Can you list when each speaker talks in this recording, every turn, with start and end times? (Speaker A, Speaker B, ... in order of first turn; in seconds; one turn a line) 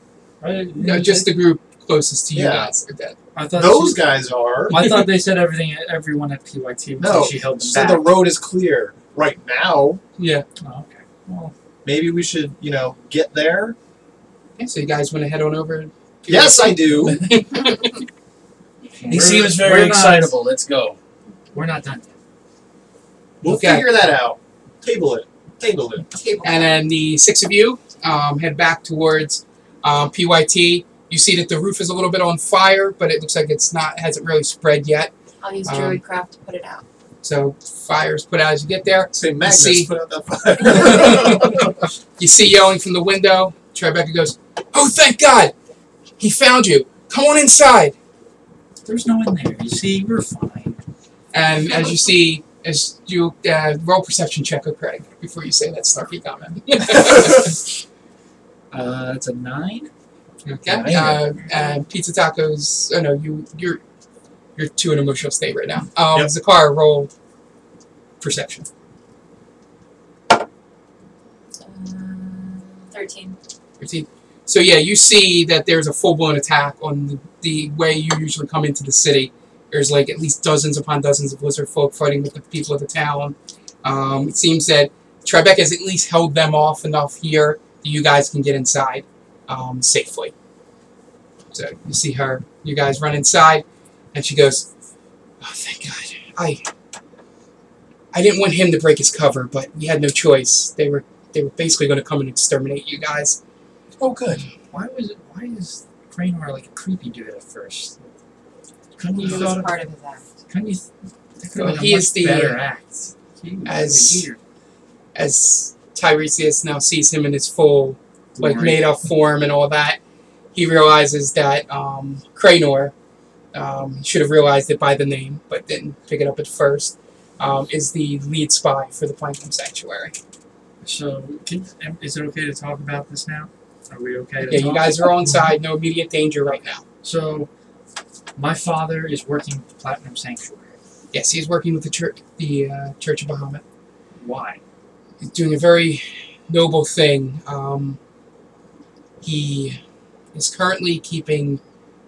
Speaker A: 0.4-1.3
Speaker B: 0.8-3.1
Speaker C: 2.3-2.7
Speaker A: 3.3-4.1
Speaker C: 3.5-4.9
Speaker A: 4.7-8.1
Speaker C: 7.0-10.0
Speaker B: 10.2-10.4
Speaker A: 10.6-11.5
Speaker C: 11.8-13.8
Speaker B: 14.6-18.0
Speaker C: 16.3-17.3
Speaker A: 18.9-20.3
Speaker D: 19.1-21.0
Speaker A: 21.5-22.1
Speaker C: 23.4-26.1
Speaker B: 23.4-23.9
Speaker E: 26.1-26.8
Speaker B: 26.4-35.1
Speaker E: 35.4-36.8
Speaker B: 35.6-36.0
Speaker B: 37.2-39.9
Speaker C: 39.1-41.7
Speaker B: 40.6-45.5
Speaker B: 46.2-47.9
Speaker A: 48.8-50.8
Speaker B: 51.3-57.6
Speaker A: 58.7-59.9
Speaker B: 60.4-63.8
Speaker D: 60.7-61.2
Speaker B: 64.5-67.1
Speaker B: 68.2-68.7
Speaker E: 71.6-73.4
Speaker B: 73.8-90.3
Speaker B: 91.5-94.7
Speaker B: 95.4-96.6
Speaker B: 98.1-103.4
Speaker C: 104.0-104.4
Speaker A: 104.7-108.1
Speaker A: 109.0-109.8
Speaker E: 109.2-110.2
Speaker A: 110.5-110.9
Speaker A: 111.4-114.4
Speaker B: 111.5-112.6
Speaker B: 113.6-114.3
Speaker B: 115.1-120.0
Speaker A: 118.4-119.0
Speaker B: 120.5-122.9
Speaker B: 123.5-130.1
Speaker A: 130.8-135.5
Speaker B: 134.5-136.8
Speaker A: 137.0-137.5
Speaker A: 138.3-140.8
Speaker B: 141.1-143.6
Speaker A: 144.2-144.6
Speaker B: 145.2-148.0
Speaker B: 149.2-149.8
Speaker B: 150.3-151.6